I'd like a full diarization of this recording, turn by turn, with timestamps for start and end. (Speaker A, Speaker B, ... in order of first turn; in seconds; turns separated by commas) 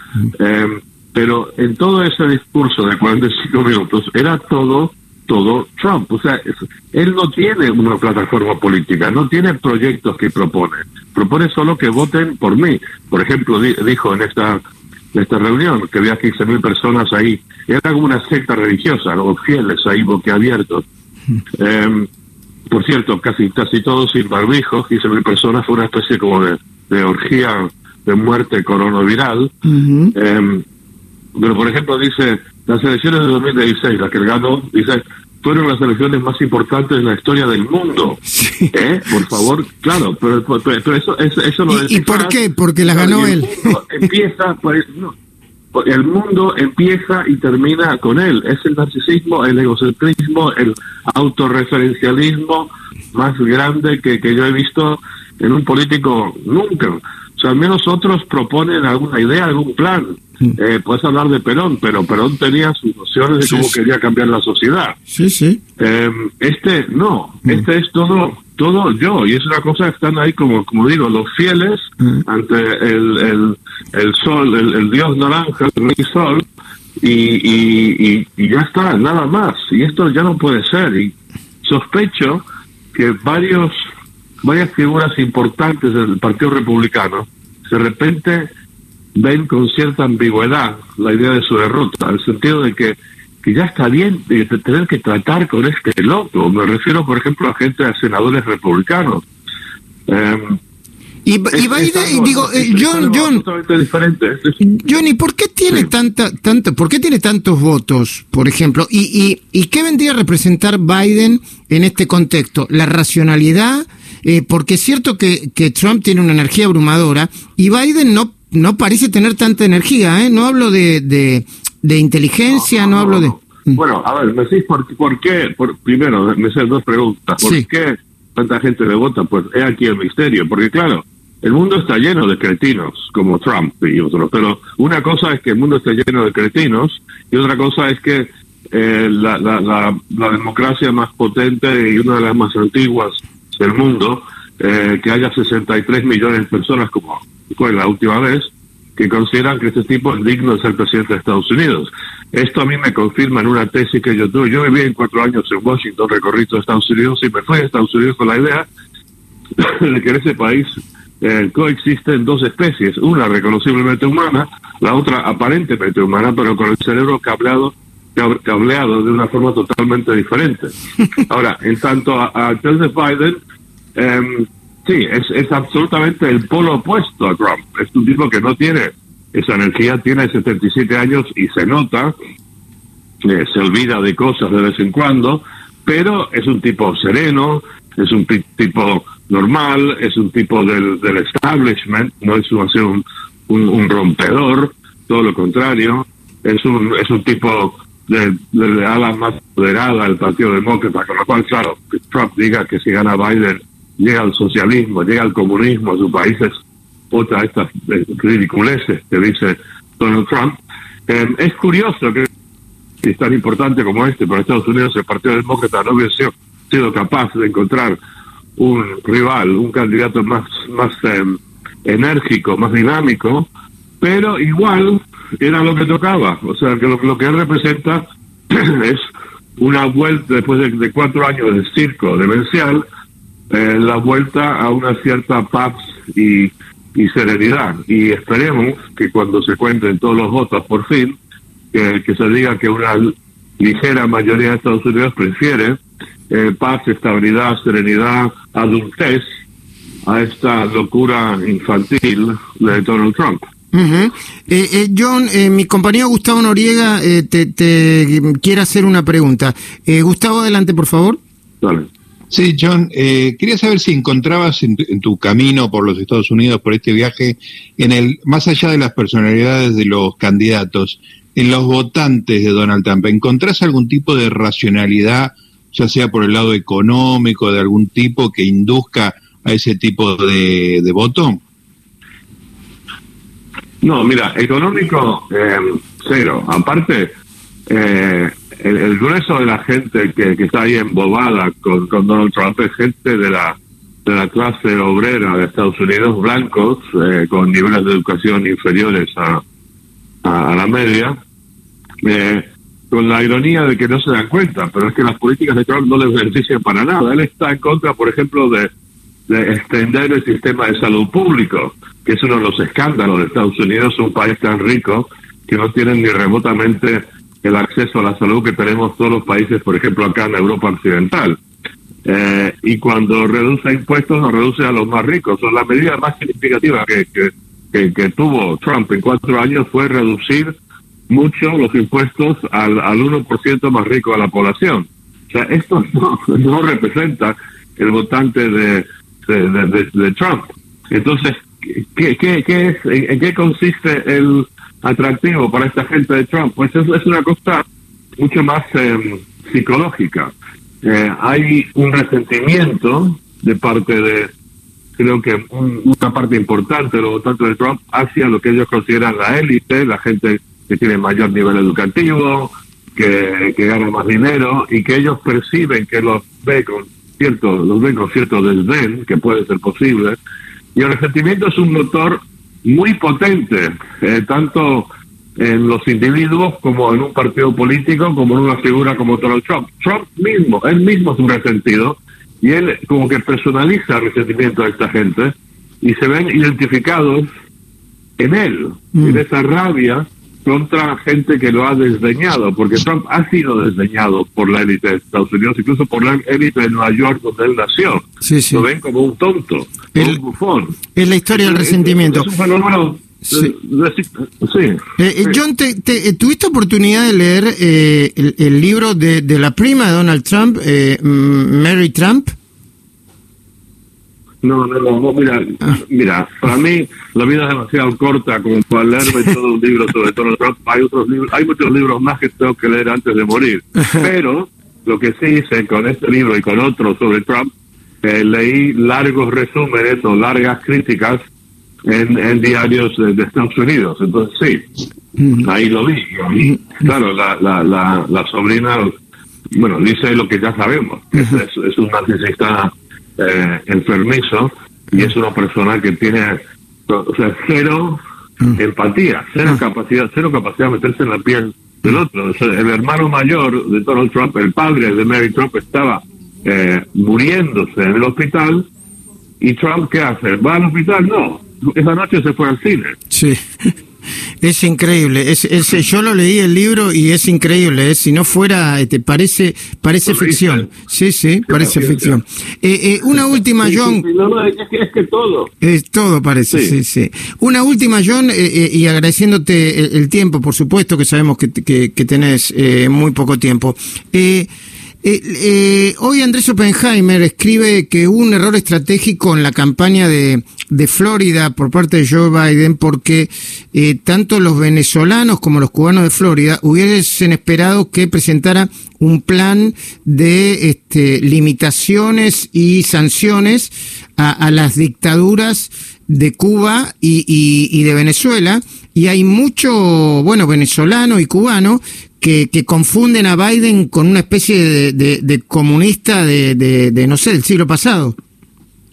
Speaker A: 0.3-14.6, Speaker A: 15.1-20.8, Speaker A: 21.6-22.1, Speaker A: 22.7-29.5, Speaker B: 29.6-30.1, Speaker A: 30.1-30.6, Speaker A: 31.4-45.1, Speaker B: 38.3-38.7, Speaker B: 41.7-43.8, Speaker A: 45.7-65.0, Speaker B: 63.4-63.8, Speaker B: 65.1-65.6, Speaker A: 65.8-76.4, Speaker A: 77.0-83.8, Speaker A: 84.4-88.5, Speaker A: 89.2-99.2, Speaker A: 100.1-100.6, Speaker B: 101.2-103.4, Speaker A: 101.5-104.6, Speaker B: 104.6-123.8, Speaker A: 122.5-158.7, Speaker B: 127.4-127.7, Speaker A: 159.6-173.4, Speaker A: 174.0-182.1, Speaker A: 183.2-206.5, Speaker A: 207.1-212.3, Speaker A: 213.0-218.0, Speaker A: 218.6-223.5, Speaker A: 224.0-229.1, Speaker A: 229.6-232.8, Speaker A: 233.5-241.2, Speaker A: 241.7-245.8, Speaker A: 246.3-249.2, Speaker A: 250.0-253.5, Speaker B: 253.7-261.2, Speaker A: 261.6-261.9, Speaker C: 262.3-281.4, Speaker A: 283.8-287.1, Speaker A: 287.7-299.4, Speaker A: 300.2-301.2, Speaker A: 302.0-308.7, Speaker A: 309.3-321.4, Speaker A: 322.1-330.5, Speaker A: 331.1-347.6, Speaker A: 348.2-354.3, Speaker A: 355.0-370.2, Speaker A: 370.8-387.3, Speaker A: 388.2-400.8, Speaker B: 398.2-398.6, Speaker B: 400.9-402.3, Speaker A: 401.3-405.4, Speaker B: 405.0-412.3, Speaker A: 414.4-427.5, Speaker A: 428.0-431.2, Speaker A: 431.9-434.8, Speaker A: 435.4-438.9, Speaker A: 439.5-448.0, Speaker A: 448.5-458.7, Speaker A: 459.4-463.0, Speaker B: 463.1-463.7, Speaker B: 464.4-474.0, Speaker A: 470.1-470.7, Speaker A: 471.5-472.2, Speaker A: 473.6-475.5, Speaker B: 475.6-484.5, Speaker A: 476.5-476.8, Speaker B: 485.0-518.2